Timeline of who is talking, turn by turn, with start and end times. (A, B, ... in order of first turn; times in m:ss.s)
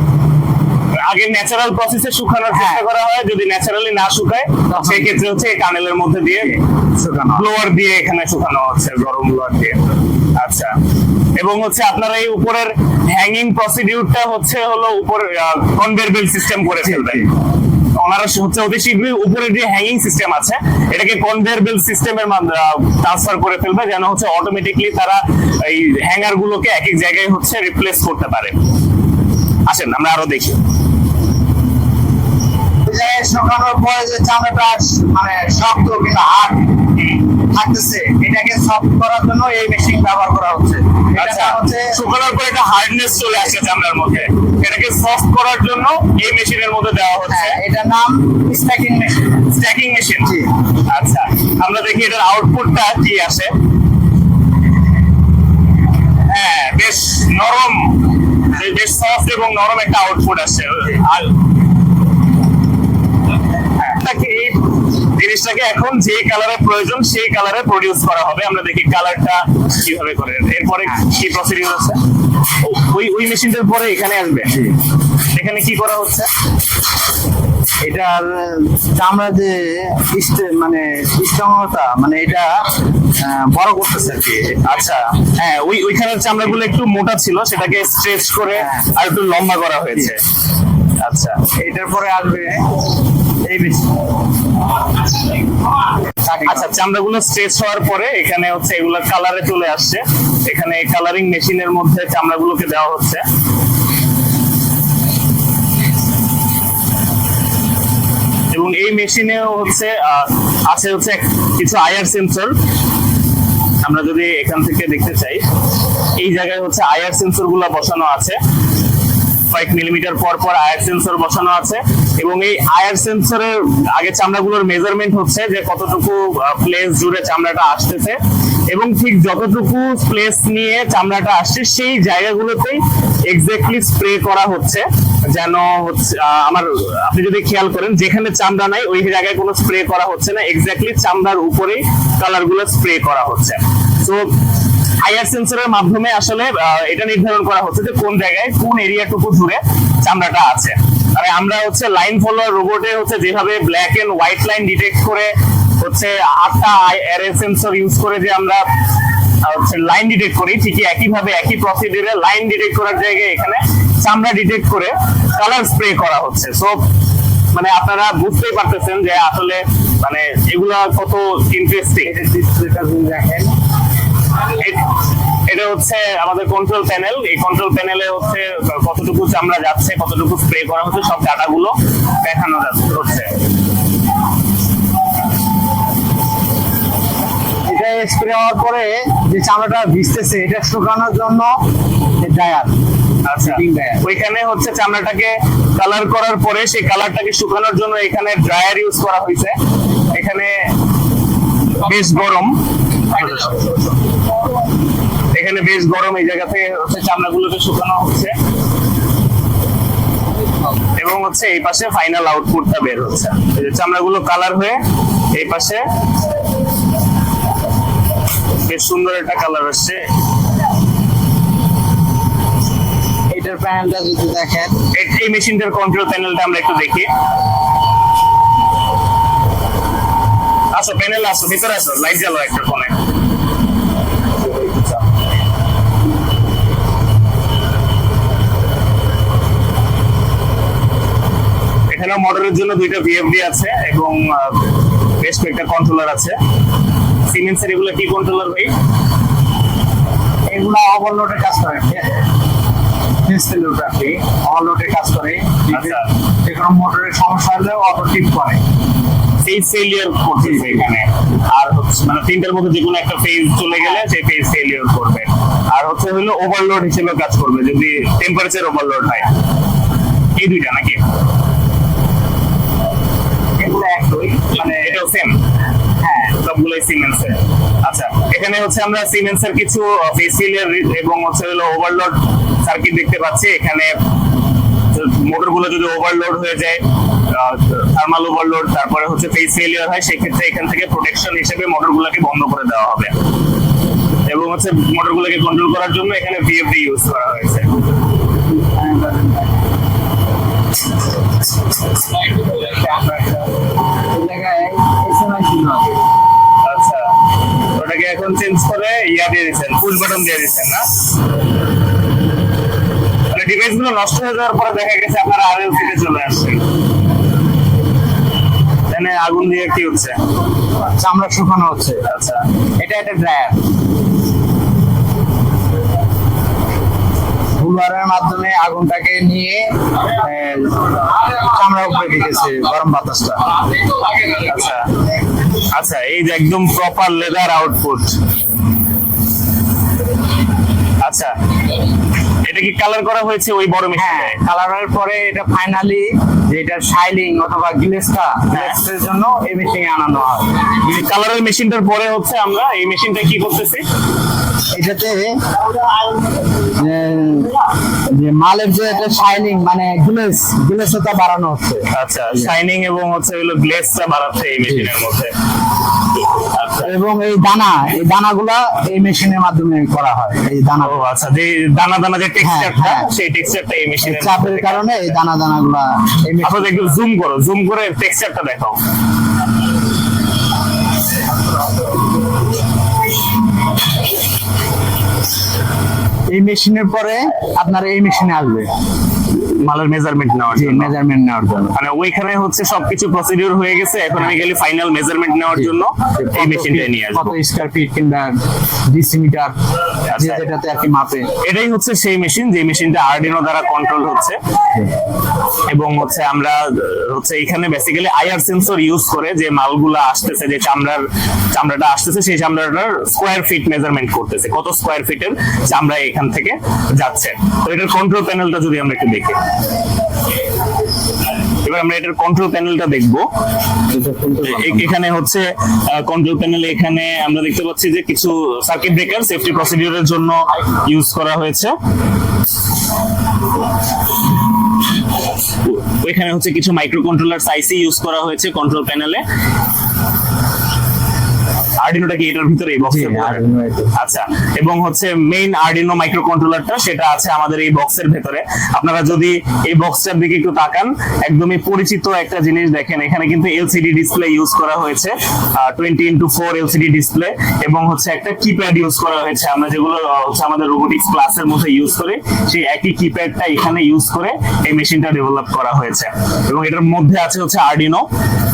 0:00.9-0:06.6 A
0:02.5-0:02.8 B
0:04.7-0:05.2 B
0:06.5-0:07.4 B
0:07.3-0:10.7 A
0:11.4-0:17.3 A
0:16.8-0:17.3 B
0:18.0-0:28.6 A
0:29.7-0:30.6 A
0:32.9-0:36.7 B
0:37.0-0:37.3 A
0:37.4-0:42.0 B
0:41.2-0:47.6 A
0:47.3-0:49.4 B
0:49.4-0:53.5 A
0:50.2-0:50.5 B
0:56.3-1:01.4 A
1:03.8-1:14.5 A
1:14.5-1:14.8 B
1:15.3-1:16.3 A
1:17.8-1:24.7 B
1:24.6-1:30.2 A
1:28.5-1:28.9 B
1:31.0-1:31.4 A
1:31.6-1:32.9 B
1:33.4-1:33.9 B
1:36.2-1:36.7 B
1:36.4-1:43.2 A
1:48.5-1:52.5 A
1:53.8-1:55.4 A
1:56.1-1:58.4 A
1:59.5-2:24.2 A
2:25.0-2:38.6 A
2:39.4-2:46.8 A
2:47.5-2:52.1 A
2:52.0-2:53.5 B
2:54.3-2:54.8 A
2:55.4-3:03.4 A
3:07.7-3:11.5 B
3:12.2-3:12.7 B
3:13.2-3:19.5 A
3:13.4-3:14.0 B
3:20.1-3:20.6 A
3:21.7-3:23.8 A
3:25.3-3:28.3 A
3:31.0-3:34.8 A
3:35.3-3:35.8 A
3:38.6-3:40.0 A
3:43.3-3:44.7 B
3:44.9-3:47.1 A
3:50.7-3:53.0 A
3:54.6-3:54.9 A
4:01.9-4:04.7 A
4:05.2-4:06.4 A
4:07.3-4:08.7 A
4:10.5-4:12.2 B
4:13.2-4:18.6 B
4:15.7-4:16.1 A
4:19.4-4:29.4 A
4:30.4-4:31.0 A
4:33.6-4:35.0 B
4:34.5-4:35.4 A
4:36.0-4:36.4 B
4:36.3-4:43.9 A
4:44.9-4:53.1 A
4:54.2-4:57.8 A
4:58.6-4:59.6 B
5:02.6-5:03.3 B
5:04.1-5:06.0 B
5:06.6-5:07.1 A
5:07.7-5:10.9 A
5:13.3-5:16.7 A
5:18.9-5:20.2 A
5:20.8-5:22.0 B
5:22.0-5:22.4 A
5:22.8-5:23.6 B
5:27.6-5:33.8 B
5:34.2-5:34.9 A
5:35.5-5:38.2 A
5:41.0-5:41.8 A
5:42.4-5:44.4 A
5:43.9-5:50.6 B
5:48.5-5:48.8 A
5:50.7-5:53.8 A
5:54.7-5:55.3 B
5:56.7-5:57.5 B
5:58.1-6:02.5 B
6:01.9-6:05.3 A
6:04.6-6:04.9 B
6:06.3-6:06.9 A
6:06.8-6:11.0 B
6:10.8-6:15.1 A
6:12.4-6:13.1 B
6:14.0-6:16.9 B
6:16.4-6:18.8 A
6:26.3-6:28.7 B
6:29.3-6:30.9 A
6:30.5-6:31.8 B
6:31.7-6:37.3 A
6:35.5-6:38.3 B
6:38.9-6:39.5 B
6:40.0-6:40.4 A
6:40.1-6:41.3 B
6:41.4-6:44.4 A
6:45.7-6:59.4 A
7:01.6-7:03.3 A
7:03.9-7:04.9 B
7:04.4-7:11.7 A
7:15.6-7:19.2 A
7:21.8-7:23.4 A
7:22.9-7:23.9 B
7:23.9-7:48.0 A